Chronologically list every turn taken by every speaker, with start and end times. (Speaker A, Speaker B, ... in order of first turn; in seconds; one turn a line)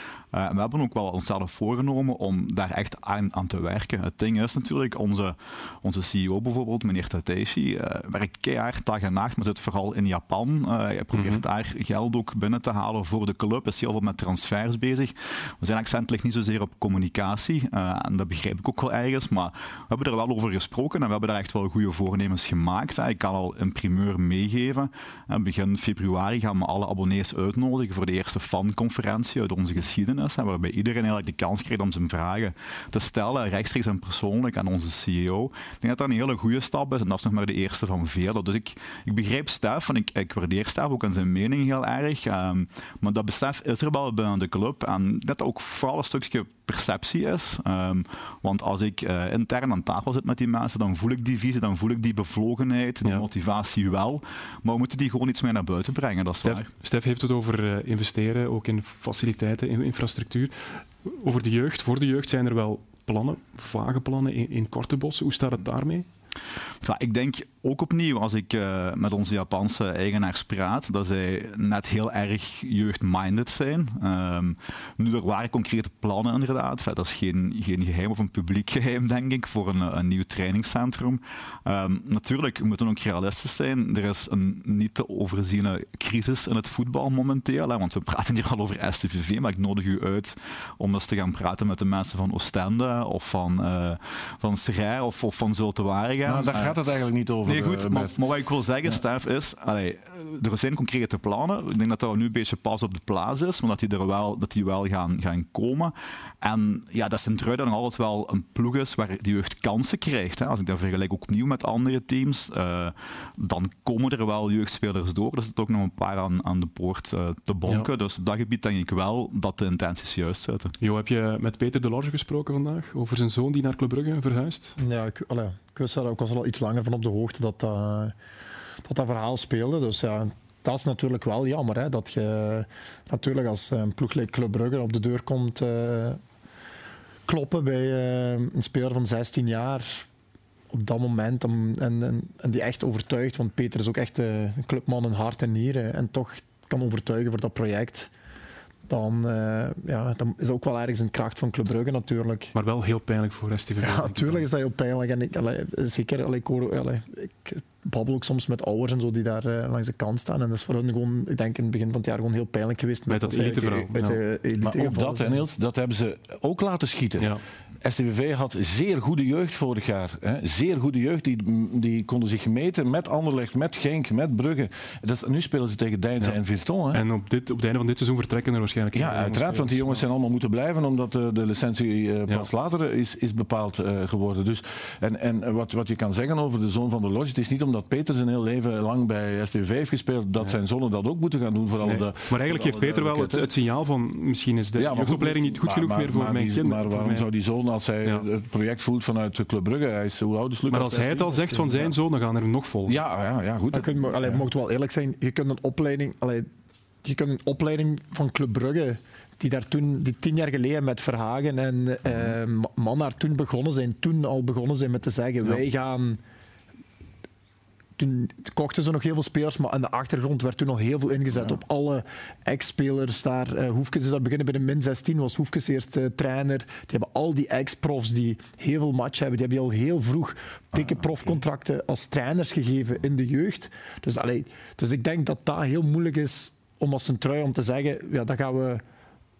Speaker A: 0.3-56.7
Speaker B: 11.1-11.4
Speaker B: 56.4-66.0
Speaker A: 66.8-96.7
Speaker C: 96.2-98.2
Speaker A: 97.4-120.7
Speaker B: 120.8-124.8
Speaker D: 124.8-128.1
Speaker D: 128.8-136.2
Speaker D: 137.3-140.0
Speaker D: 140.7-148.1
Speaker D: 148.9-152.5
Speaker B: 152.5-154.5
Speaker D: 153.8-165.4
Speaker B: 163.1-164.2
Speaker C: 164.6-177.0
Speaker B: 176.9-180.0
Speaker C: 178.9-193.5
Speaker B: 191.8-197.3
Speaker C: 194.8-201.9
Speaker B: 200.7-203.0
Speaker C: 202.9-204.4
Speaker D: 203.7-206.5
Speaker D: 207.0-216.2
Speaker D: 218.0-238.8
Speaker C: 230.7-231.3